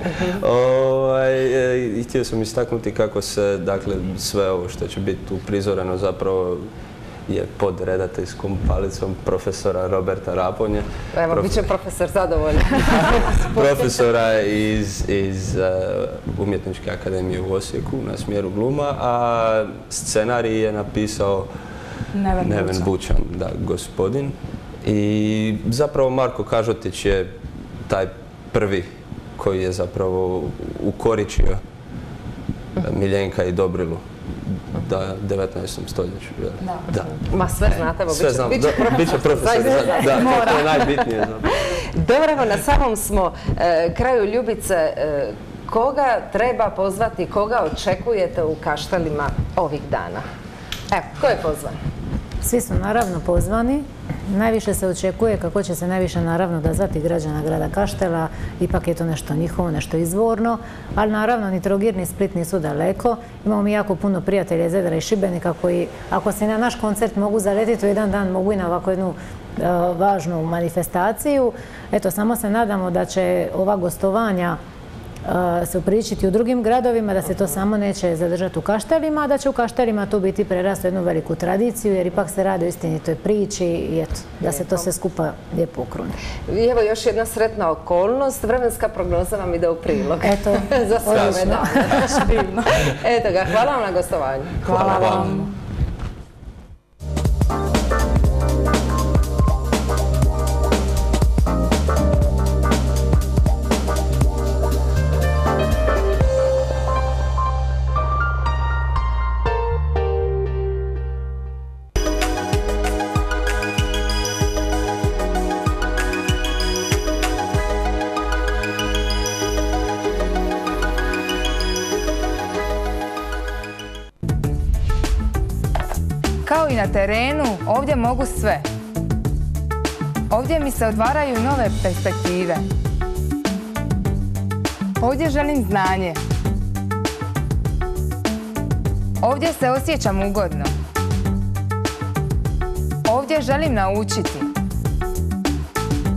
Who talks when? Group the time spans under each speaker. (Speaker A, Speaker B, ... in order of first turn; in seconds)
Speaker A: 0.2-6.7, 7.3-11.7, 13.1-21.5, 22.4-27.3, 27.9-31.6, 32.8-41.5, 91.1-91.4, 94.7-95.4
Speaker B: 11.1-13.0, 13.5-13.8, 37.1-41.0, 41.7-50.2, 50.9-51.8, 84.4-84.9, 86.5-95.4
Speaker C: 22.1-22.9, 36.6-36.9, 92.1-92.7, 94.6-95.5
Speaker D: 52.4-74.6, 75.3-86.1, 90.2-92.2
Speaker E: 126.5-128.7, 130.3-132.6, 135.0-136.2, 139.2-140.7, 143.1-144.5